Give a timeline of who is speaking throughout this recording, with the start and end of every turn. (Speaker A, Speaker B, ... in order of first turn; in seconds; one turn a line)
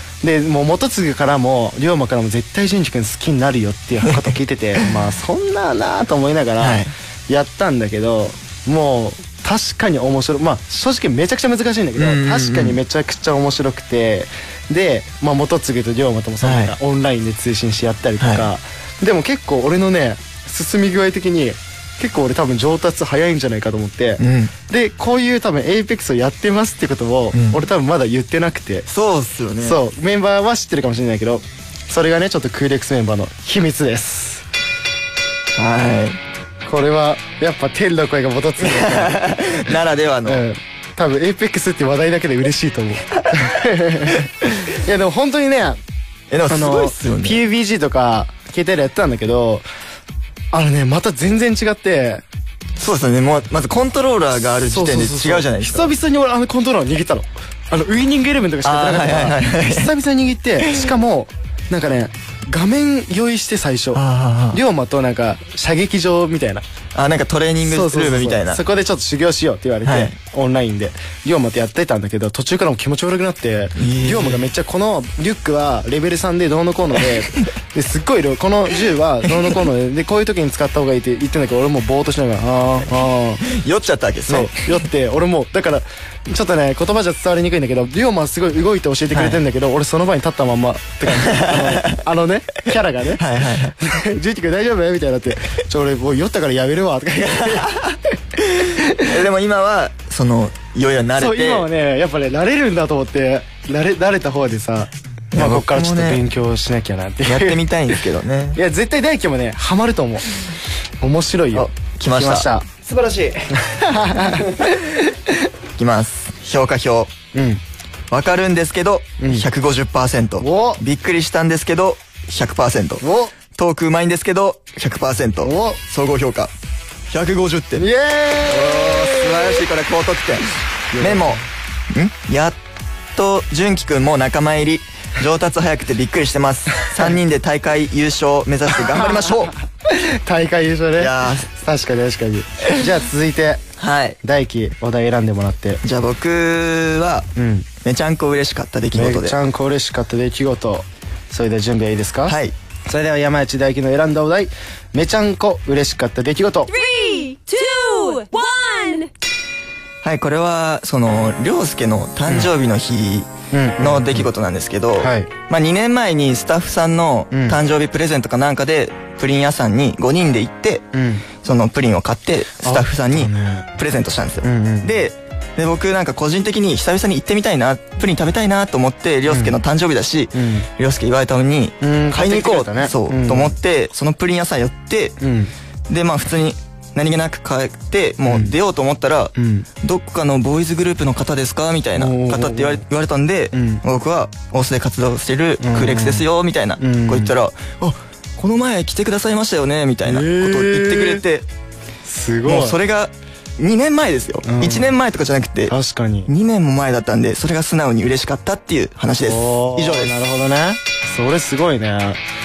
Speaker A: 0.2-28.9
Speaker B: 6.6-6.9
Speaker B: 12.0-12.8
Speaker B: 16.4-16.8
Speaker B: 18.2-18.5
Speaker B: 24.2-24.5
Speaker B: 27.3-27.6
Speaker B: 28.9-29.8
Speaker A: 29.6-34.4
Speaker B: 35.5-36.2
Speaker A: 36.6-39.5
Speaker B: 38.6-40.4
Speaker A: 40.2-45.8
Speaker B: 46.3-47.4
Speaker A: 46.5-49.6
Speaker A: 50.5-52.2
Speaker B: 52.8-55.9
Speaker A: 54.7-66.6
Speaker B: 58.6-59.9
Speaker B: 63.9-64.6
Speaker B: 66.9-68.6
Speaker A: 67.6-83.5
Speaker B: 69.8-70.1
Speaker B: 73.8-74.4
Speaker B: 83.5-84.7
Speaker A: 84.3-93.2
Speaker B: 89.1-89.4
Speaker B: 91.1-92.0
Speaker B: 93.2-93.8
Speaker A: 93.8-97.7
Speaker B: 97.2-98.0
Speaker B: 98.6-101.7
Speaker A: 98.7-99.0
Speaker A: 101.2-108.0
Speaker B: 105.3-106.2
Speaker B: 107.2-108.6
Speaker A: 108.5-110.3
Speaker A: 111.0-112.8
Speaker B: 111.5-113.2
Speaker A: 113.6-114.8
Speaker B: 115.8-117.1
Speaker A: 117.3-117.6
Speaker B: 118.1-123.0
Speaker A: 119.2-119.5
Speaker A: 120.4-120.8
Speaker A: 123.0-123.3
Speaker B: 123.5-126.5
Speaker A: 125.4-125.8
Speaker B: 127.1-127.8
Speaker A: 127.8-129.6
Speaker B: 128.5-130.5
Speaker A: 130.9-131.4
Speaker B: 131.0-132.6
Speaker B: 133.1-139.5
Speaker A: 139.9-143.6
Speaker B: 141.0-141.5
Speaker B: 143.8-144.2
Speaker A: 144.2-145.8
Speaker B: 145.8-147.3
Speaker A: 147.3-147.7
Speaker B: 147.8-149.4
Speaker A: 148.9-152.3
Speaker B: 152.2-152.5
Speaker A: 152.9-156.7
Speaker C: 156.7-159.1
Speaker B: 160.0-170.8
Speaker A: 163.5-164.2
Speaker A: 165.0-165.3
Speaker A: 167.3-167.6
Speaker A: 170.9-171.2
Speaker B: 171.4-185.2
Speaker A: 172.6-173.7
Speaker A: 174.4-174.9
Speaker A: 179.3-179.6
Speaker A: 180.3-180.7
Speaker A: 181.8-183.5
Speaker A: 185.2-185.5
Speaker B: 185.9-201.5
Speaker A: 188.3-188.5
Speaker A: 189.3-189.7
Speaker A: 192.0-192.8
Speaker A: 193.5-193.8
Speaker A: 195.6-196.2
Speaker A: 196.8-197.3
Speaker A: 200.1-201.2
Speaker A: 202.0-202.8
Speaker B: 202.4-205.7
Speaker A: 204.4-204.9
Speaker A: 205.7-206.3
Speaker B: 206.3-210.2
Speaker A: 209.2-212.2